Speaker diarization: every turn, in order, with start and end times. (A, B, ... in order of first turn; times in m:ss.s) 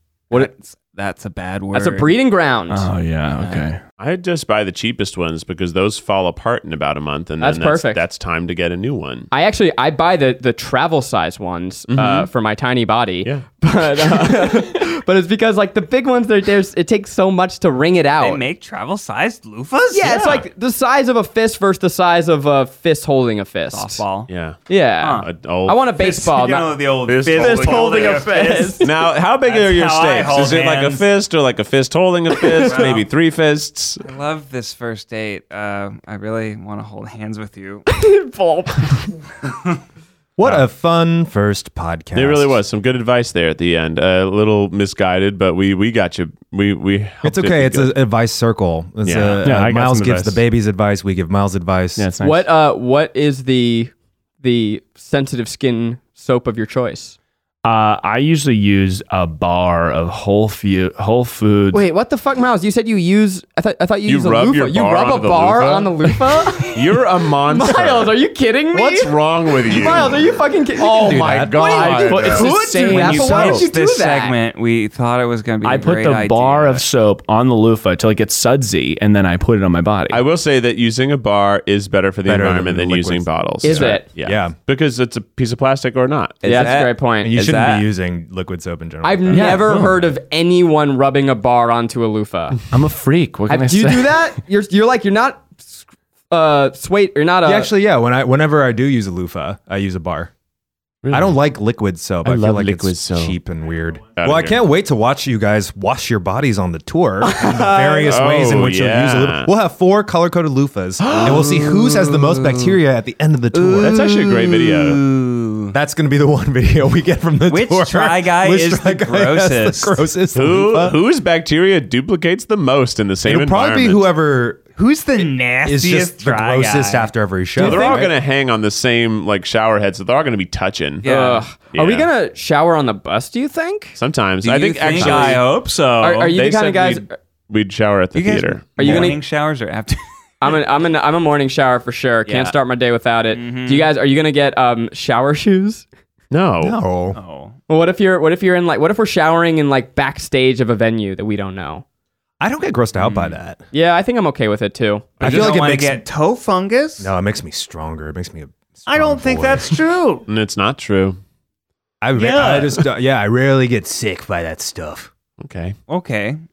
0:00.3-0:02.1 A
0:01.7-0:02.9 B
0:02.7-0:03.8 C
0:03.4-0:03.6 A
0:04.0-0:09.3 D
0:07.4-0:08.0 B
0:09.3-0:18.4 B
0:11.9-0:12.3 D
0:18.2-0:20.3 A
0:19.9-0:24.0 B
0:20.0-0:20.4 D
0:23.7-0:24.3 A
0:24.3-0:24.6 D
0:24.7-0:26.7 B
0:25.0-0:25.3 A
0:25.2-0:25.8 D
0:25.9-0:31.1 A
0:27.0-0:34.0 D
0:27.3-0:28.9 B
0:32.6-0:33.1 A
0:34.0-0:37.9 A
0:37.9-0:39.0 B
0:40.4-0:42.6 E
0:42.1-0:48.0 D
0:47.2-0:52.0 E
0:49.0-0:49.5 D
0:49.4-0:50.4 C
0:52.0-0:52.5 C
0:52.2-0:57.2 B
0:57.6-1:01.8 C
1:01.7-1:06.8 B
1:04.0-1:08.2 D
1:07.5-1:14.3 B
1:08.7-1:10.2 D
1:10.8-1:12.3 E
1:10.8-1:12.5 D
1:12.0-1:13.6 C
1:12.8-1:16.9 A
1:15.6-1:20.2 C
1:20.1-1:26.4 D
1:22.2-1:24.5 E
1:23.6-1:24.0 B
1:26.4-1:27.9 A
1:26.4-1:27.4 B
1:26.5-1:29.9 E
1:29.0-1:32.6 B
1:29.3-1:29.9 C
1:32.7-1:34.2 C
1:33.5-1:37.7 B
1:37.4-1:40.3 E
1:41.0-1:41.4 D
1:41.1-1:54.1 E
1:42.2-1:43.4 D
1:44.1-1:44.6 D
1:47.2-1:48.1 B
1:48.0-1:49.5 D
1:51.0-1:51.6 D
1:51.2-1:51.5 A
1:53.5-1:55.7 A
1:53.8-1:55.0 D
1:55.7-2:01.0 E
1:57.5-2:00.0 A
2:00.3-2:04.0 D
2:03.2-2:04.6 E
2:04.8-2:07.1 A
2:05.6-2:08.0 E
2:07.6-2:08.1 B
2:07.6-2:11.0 D
2:11.0-2:11.5 A
2:11.0-2:14.0 B
2:11.7-2:12.1 D
2:14.0-2:15.5 D
2:14.4-2:16.3 A
2:15.0-2:15.4 B
2:16.0-2:17.1 B
2:16.3-2:19.1 D
2:18.1-2:20.0 A
2:18.8-2:19.2 B
2:20.4-2:25.9 B
2:22.2-2:22.6 A
2:23.3-2:23.9 A
2:26.3-2:26.8 D
2:26.6-2:27.2 E
2:27.1-2:27.6 A
2:27.7-2:31.8 B
2:32.4-2:33.6 E
2:33.0-2:33.4 A
2:33.7-2:35.2 B
2:35.2-2:36.0 E
2:35.2-2:37.1 A
2:37.0-2:39.8 E
2:38.9-2:40.2 A
2:40.3-2:41.2 D
2:42.0-2:45.1 E
2:42.1-2:42.9 A
2:45.4-2:45.8 D
2:45.9-2:46.4 A